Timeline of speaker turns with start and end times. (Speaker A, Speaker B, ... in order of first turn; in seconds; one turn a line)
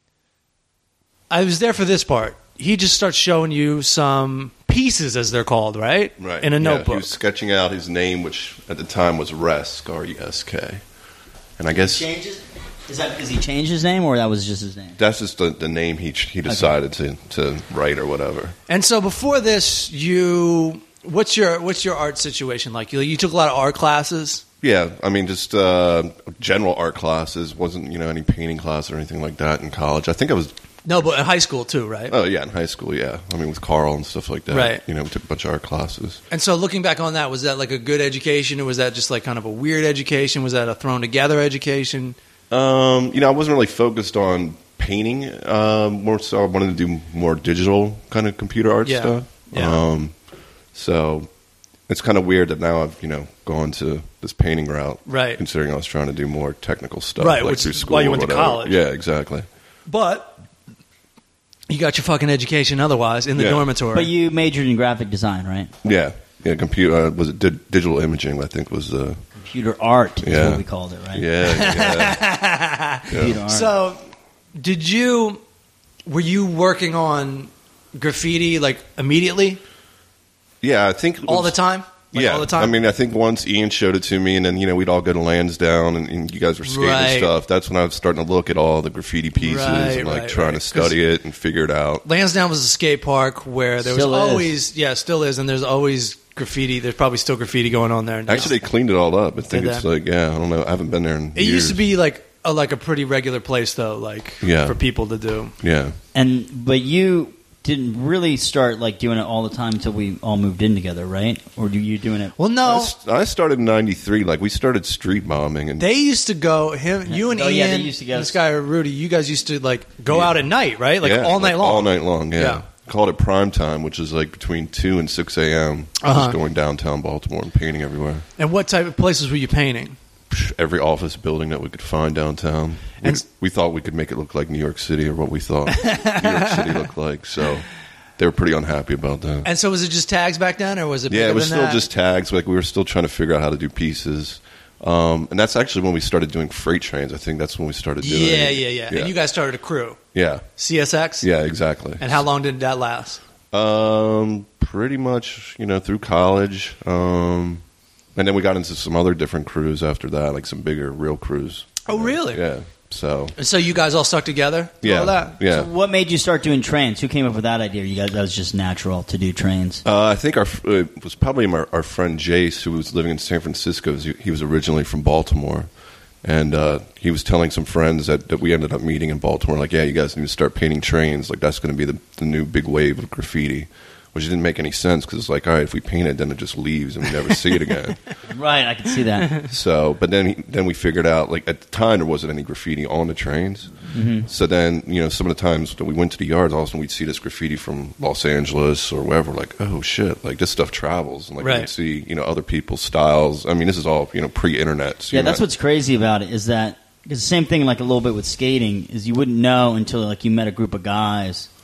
Speaker A: 1.3-7.1
Speaker B: 6.2-10.8
Speaker B: 11.6-12.0
Speaker C: 11.8-15.0
Speaker B: 15.0-18.6
Speaker A: 18.7-24.4
Speaker B: 24.6-30.5
Speaker A: 30.9-32.1
Speaker B: 32.1-36.2
Speaker A: 34.5-34.8
Speaker A: 36.3-42.2
Speaker B: 42.5-50.2
Speaker A: 48.9-49.8
Speaker B: 50.7-51.3
Speaker B: 51.9-59.5
Speaker A: 55.1-55.4
Speaker A: 57.2-58.8
Speaker A: 59.9-60.4
Speaker A: 61.7-64.1
Speaker B: 63.4-63.7
Speaker C: 63.9-65.7
Speaker B: 65.8-69.2
Speaker C: 69.4-71.2
Speaker B: 70.2-72.2
Speaker A: 71.4-74.0
Speaker B: 73.1-73.4
Speaker C: 73.1-73.7
Speaker A: 74.6-75.4
Speaker A: 76.1-79.6
Speaker B: 80.6-81.5
Speaker A: 81.3-82.8
Speaker B: 82.1-92.0
Speaker A: 86.7-87.3
Speaker A: 89.4-91.0
Speaker A: 92.0-98.5
Speaker C: 93.8-94.5
Speaker B: 98.3-101.8
Speaker A: 99.5-99.8
Speaker A: 101.3-105.5
Speaker B: 104.4-104.8
Speaker B: 105.6-106.0
Speaker C: 106.1-112.3
Speaker A: 112.4-112.9
Speaker B: 112.7-115.9
Speaker A: 115.8-122.7
Speaker C: 117.1-118.4
Speaker B: 120.1-120.4
Speaker B: 121.0-128.2
Speaker A: 126.0-126.4
Speaker A: 128.4-130.0
Speaker B: 130.3-137.7
Speaker A: 135.7-136.8
Speaker B: 138.2-139.5
Speaker A: 139.4-141.8
Speaker B: 141.1-149.1
Speaker A: 148.0-150.0
Speaker B: 150.1-150.5
Speaker A: 150.6-151.3
Speaker B: 151.2-152.2
Speaker A: 152.0-153.2
Speaker B: 153.5-157.6
Speaker B: 158.2-163.3
Speaker A: 161.8-162.4
Speaker A: 163.4-165.4
Speaker B: 164.8-165.7
Speaker C: 165.4-169.8
Speaker B: 169.8-175.7
Speaker B: 176.2-188.0
Speaker C: 188.3-189.4
Speaker B: 189.5-205.4
Speaker C: 193.9-194.3
Speaker A: 201.4-201.7
Speaker C: 205.1-211.5